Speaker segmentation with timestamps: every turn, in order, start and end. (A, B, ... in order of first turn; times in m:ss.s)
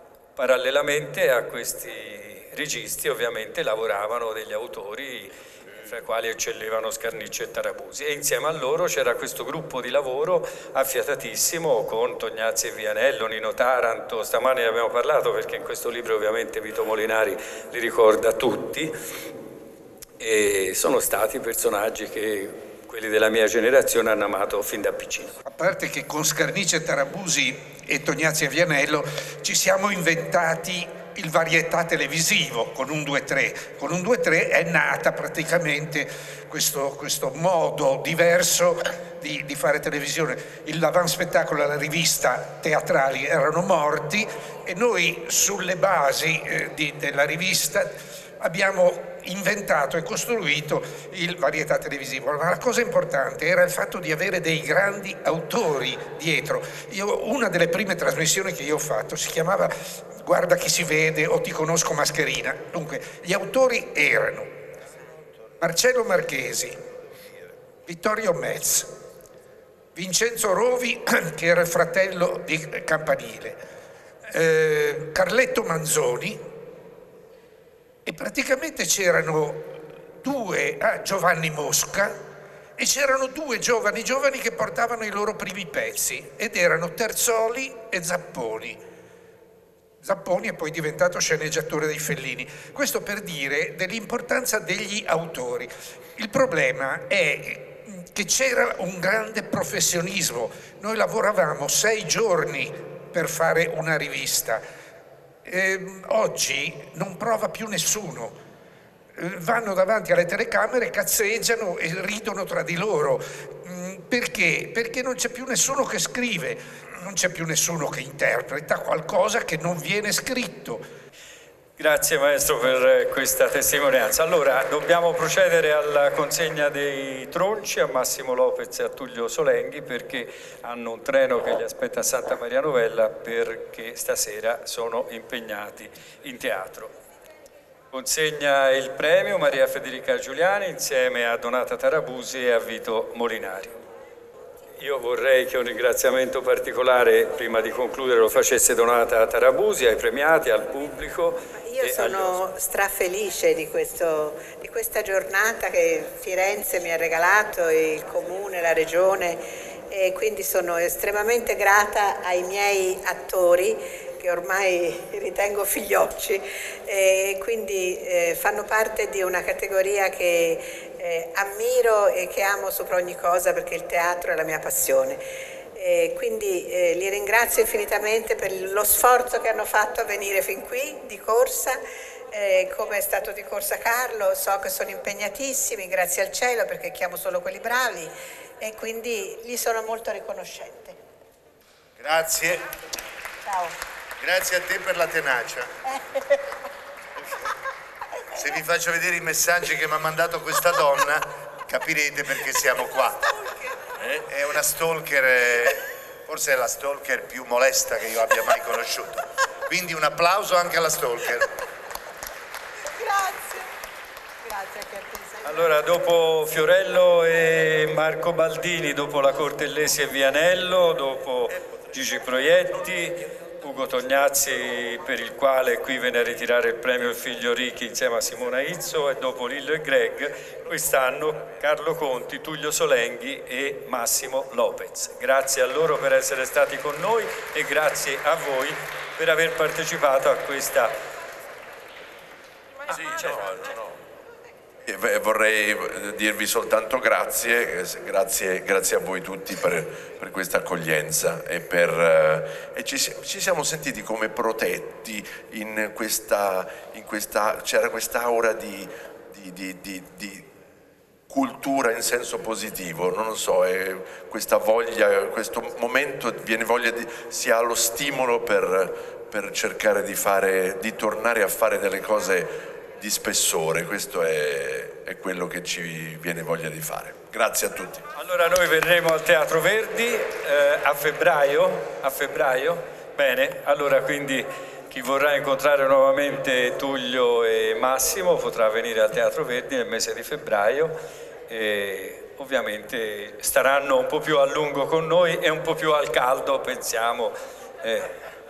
0:00.4-0:19.0 A
0:20.2-0:25.4 A
0:25.5-1:04.5 B
1:05.6-1:06.8 B
1:07.9-1:08.9 B
1:10.0-1:13.6 B
1:14.3-1:16.4 B
1:18.0-1:22.2 B
1:22.8-1:28.8 B
1:30.0-1:44.6 B
1:45.4-1:48.4 B
1:49.2-2:00.8 B
2:01.8-2:16.9 A
2:17.9-2:23.8 A
2:24.8-2:32.4 A
2:31.6-2:55.2 C
2:55.8-3:11.0 C
3:12.0-3:12.7 D
3:13.5-3:13.8 C
3:14.2-3:15.7 D
3:15.9-3:16.6 C
3:18.4-3:23.2 D
3:24.3-3:31.5 D
3:33.0-3:33.7 C
3:34.4-3:35.8 C
3:35.4-4:00.9 A
4:02.9-4:04.0 E
4:02.9-4:03.4 A
4:04.8-4:20.5 E
4:21.3-4:38.0 E
4:38.1-4:58.2 A